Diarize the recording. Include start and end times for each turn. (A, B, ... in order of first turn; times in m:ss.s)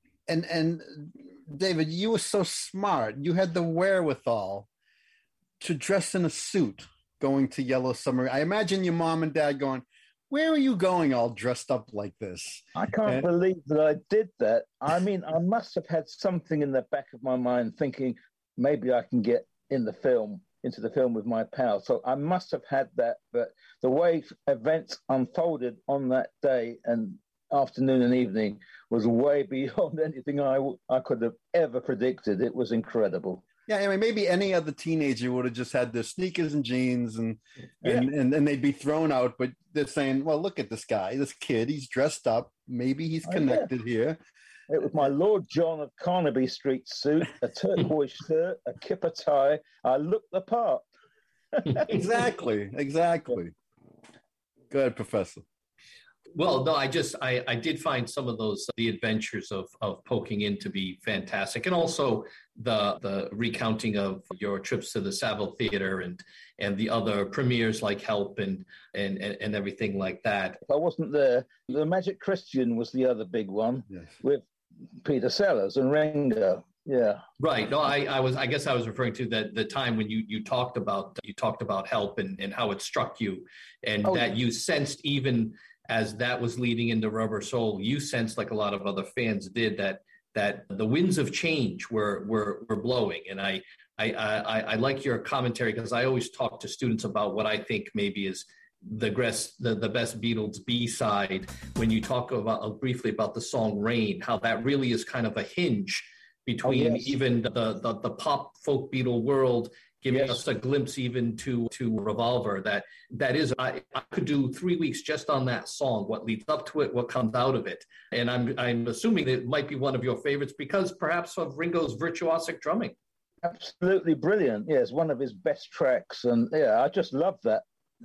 0:00.3-0:04.7 A
0:05.6-0:13.2 A
0:12.7-0:33.4 B
0:33.7-0:44.2 A
0:43.2-0:43.7 B
0:44.7-0:50.8 B
0:51.5-0:51.8 B
0:51.9-0:53.5 A
0:54.7-0:55.4 A
0:56.3-1:10.6 C
1:10.7-1:14.4 B
1:15.0-1:17.2 B
1:17.4-2:03.0 C
1:46.6-1:47.1 B
1:50.1-1:50.4 B
2:03.4-2:07.6 B